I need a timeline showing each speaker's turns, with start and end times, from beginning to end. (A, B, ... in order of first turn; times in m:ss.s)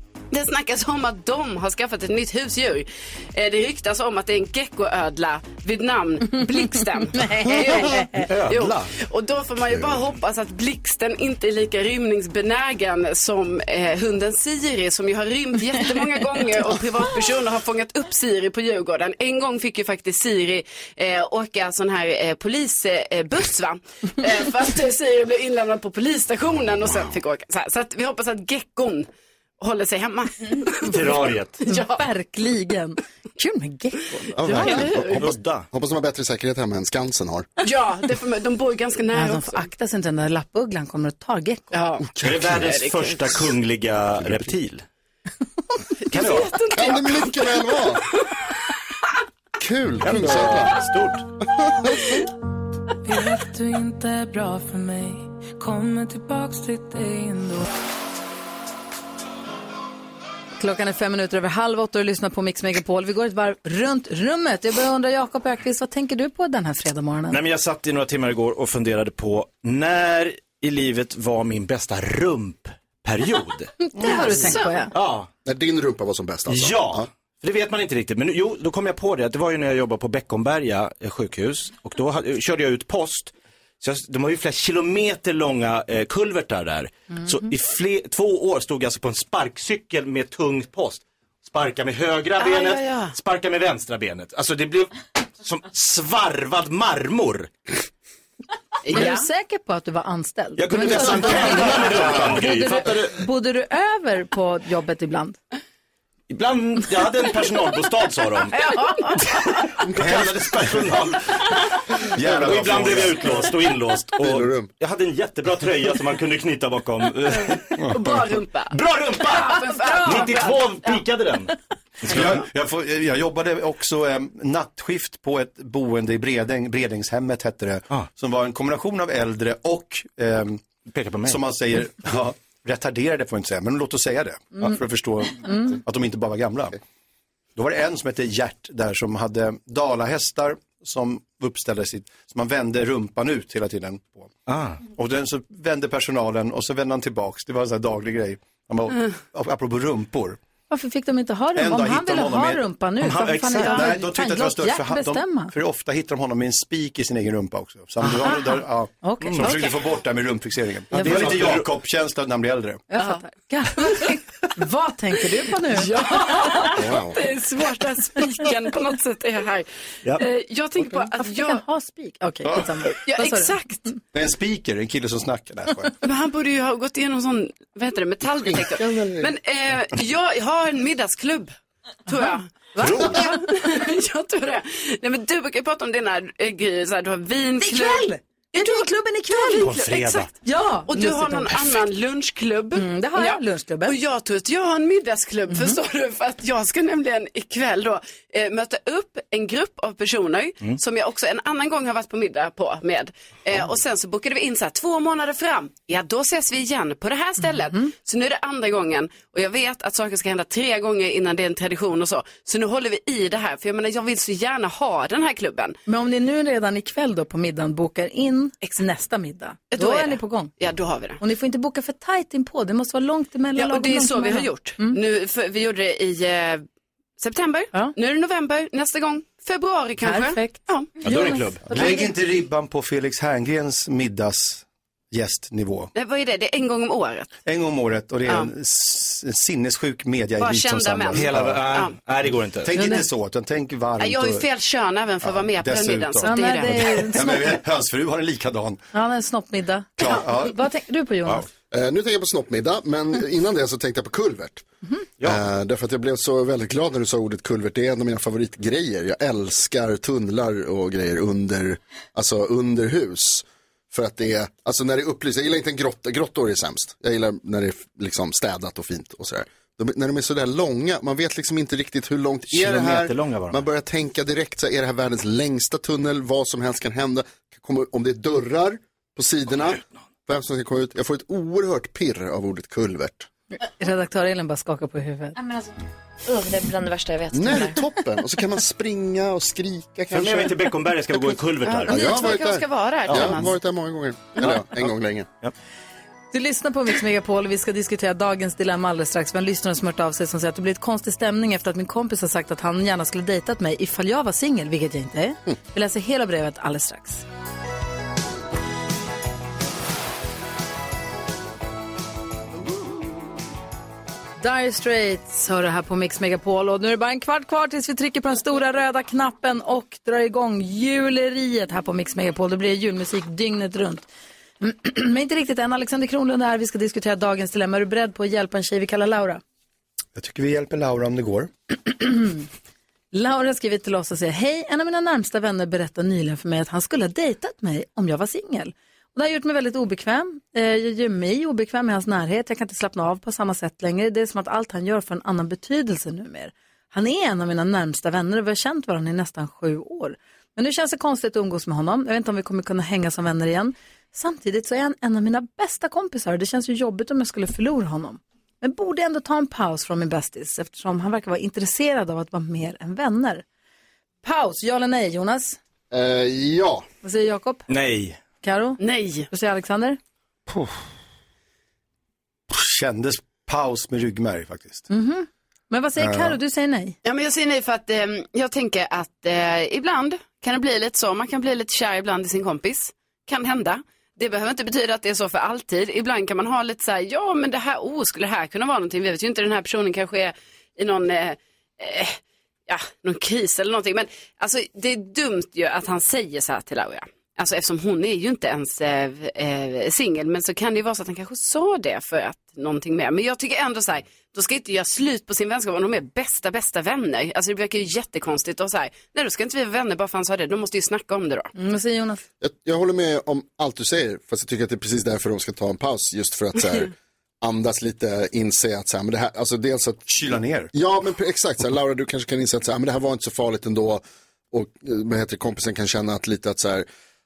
0:00.3-0:29.1 A
0:07.1-0:08.2 B
0:08.2-0:08.9 C
0:09.7-0:10.0 D
0:26.7-0:27.1 D
0:29.6-0:32.0 A
0:30.8-0:31.6 C
0:31.7-0:35.0 B
0:34.3-0:37.5 D
0:34.5-0:35.2 A
0:34.5-0:35.7 C
0:37.6-0:39.6 A
0:39.1-0:41.7 B
0:41.7-0:43.4 A
0:42.2-0:42.6 D
0:42.2-0:44.8 C
0:44.2-0:44.5 D
0:46.0-0:47.6 A
0:46.1-0:46.6 C
0:46.7-0:48.0 D
0:49.6-0:50.8 D
0:50.0-0:51.2 C
0:51.4-0:52.0 D
0:53.0-0:57.7 E
1:00.6-1:07.4 B
1:07.3-1:13.7 C
1:13.9-1:14.9 B
1:14.0-1:14.9 A
1:14.9-1:15.3 C
1:15.4-1:17.1 D
1:16.5-1:37.5 C
1:32.4-1:33.1 A
1:38.8-1:39.2 A
1:38.9-1:45.4 B
1:40.6-1:43.2 C
1:46.3-1:48.6 C
1:48.5-1:49.4 A
1:49.8-1:51.5 C
1:49.9-1:50.9 F
1:52.1-1:53.4 F
1:52.2-1:52.5 D
1:52.2-1:58.0 C
1:54.2-1:54.7 D
1:57.9-2:01.0 A
1:58.7-2:01.5 C
1:59.4-2:00.3 B
2:02.0-2:02.4 C
2:02.0-2:10.6 F
2:02.1-2:02.4 A
2:10.9-2:11.4 C
2:11.2-2:16.8 F
2:15.4-2:15.8 B
2:17.6-2:24.3 F
2:24.5-2:24.8 C
2:24.8-2:30.4 F
2:30.7-2:35.5 B
2:31.6-2:42.8 F
2:33.0-2:34.0 C
2:38.2-2:39.5 B
2:39.2-2:39.6 C
2:39.4-2:39.7 A
2:40.9-2:41.7 C
2:40.9-2:41.4 B
2:42.9-2:45.9 B
2:45.7-2:51.6 A
2:46.7-2:47.2 D
2:51.2-2:53.5 B
2:52.4-2:52.7 F
2:53.0-2:53.8 A
2:54.1-2:55.9 F
2:56.0-3:01.5 A
2:58.5-2:59.3 D
3:02.1-3:10.3 A
3:02.1-3:03.4 B
3:02.8-3:03.2 C
3:07.6-3:09.7 B
3:09.6-3:10.3 C
3:10.4-3:11.6 B
3:10.9-3:35.8 A
3:12.8-3:14.0 B
3:35.9-3:40.5 B
3:39.7-3:41.2 A
3:41.2-3:45.0 B
3:43.6-3:46.6 A
3:47.2-3:51.0 A
3:50.0-3:52.1 B
3:51.0-3:52.0 C
3:51.7-3:55.9 F
3:55.9-3:57.3 A
3:57.4-4:01.6 F
3:58.2-3:58.5 A
4:00.4-4:01.9 A
4:01.1-4:02.8 C
4:02.6-4:04.4 F
4:02.7-4:03.0 B
4:04.0-4:07.4 A
4:05.2-4:08.8 F
4:06.2-4:07.6 B
4:08.9-4:11.4 B
4:10.0-4:10.6 F
4:11.7-4:14.6 D
4:15.2-4:43.3 D
4:32.5-4:33.6 C
4:43.6-4:45.4 B
4:45.4-4:45.7 G
4:46.3-4:47.8 G
4:47.3-4:50.6 D
4:50.1-4:52.3 C
4:51.6-4:53.5 A
4:51.8-4:55.3 D
4:53.1-4:53.5 C
4:56.3-5:07.2 B
5:14.4-5:24.0 B
5:24.6-5:29.4 B
5:30.2-5:31.5 F
5:32.0-5:32.4 B
5:33.1-6:03.4 B
6:04.2-6:05.6 B
6:05.9-6:06.8 D
6:07.0-6:07.7 B
6:07.7-6:08.2 C
6:08.4-6:10.0 B
6:08.8-6:09.3 A
6:12.5-6:14.9 F
6:14.9-6:17.0 B
6:16.0-6:16.4 F
6:17.0-6:32.2 A
6:32.7-6:51.5 A
6:51.6-6:52.2 B
6:52.4-7:00.0 D
7:00.1-7:00.7 F
7:00.7-7:06.8 D